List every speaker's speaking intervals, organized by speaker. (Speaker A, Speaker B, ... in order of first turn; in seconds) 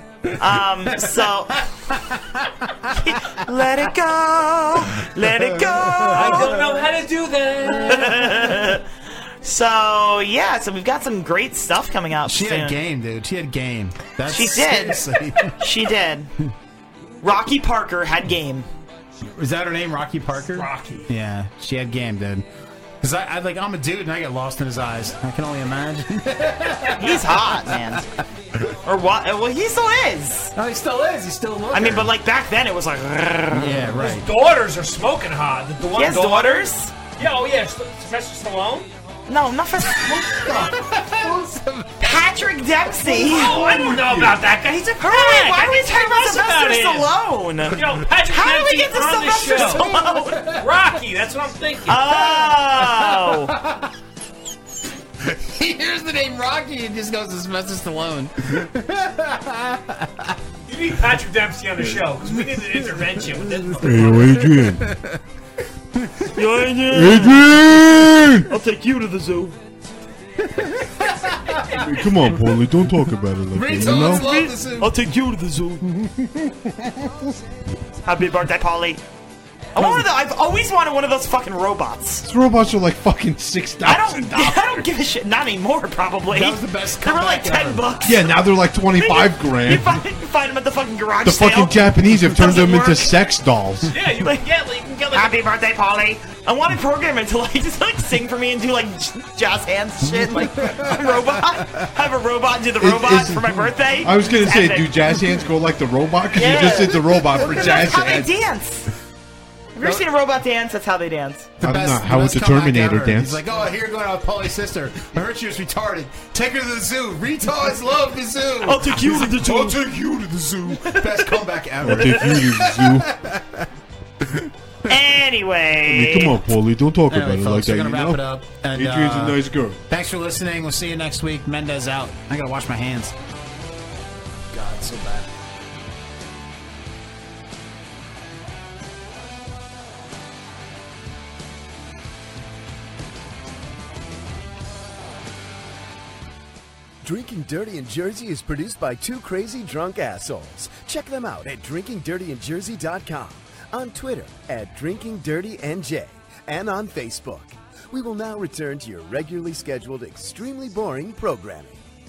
Speaker A: 0.3-2.5, 5.6-6.5, 12.2-15.5, 19.2-22.4, 23.0-27.5, 30.6-32.1, 33.5-34.3, 40.1-42.0, 49.6-50.6, 53.0-53.8, 55.2-60.3, 64.9-65.2, 66.0-66.3, 70.4-71.8, 73.5-75.0, 79.8-80.1, 86.3-88.0, 100.0-101.9, 111.6-123.6, 127.1-129.4, 129.9-133.1, 134.5-135.3
Speaker B: 0.4-1.6, 3.0-6.6, 7.8-8.9, 9.4-12.8, 14.3-15.0, 15.6-16.3, 17.2-18.7, 27.0-28.1, 28.8-30.5, 31.7-34.0, 36.0-36.9, 39.3-40.5, 42.0-43.8, 45.0-50.5, 51.9-53.5, 66.3-67.5, 68.5-69.5, 74.1-75.8, 78.0-79.0, 79.8-82.3, 83.8-88.3, 89.0-93.1, 95.1-104.9, 106.3-108.9, 109.7-111.5, 118.6-119.9, 120.9-121.4, 124.9-126.4
Speaker C: 6.1-8.5, 20.4-21.1, 34.0-38.9, 43.1-47.1, 47.7-49.9, 50.5-52.3, 60.7-64.4, 93.9-95.5
Speaker D: 41.1-41.4, 43.4-44.4, 63.8-64.8, 66.9-68.5, 71.7-74.4, 82.2-84.9, 88.0-90.0, 91.2-94.0, 102.8-108.3, 111.6-113.4, 121.8-123.1, 125.9-129.8
Speaker E: 147.0-161.8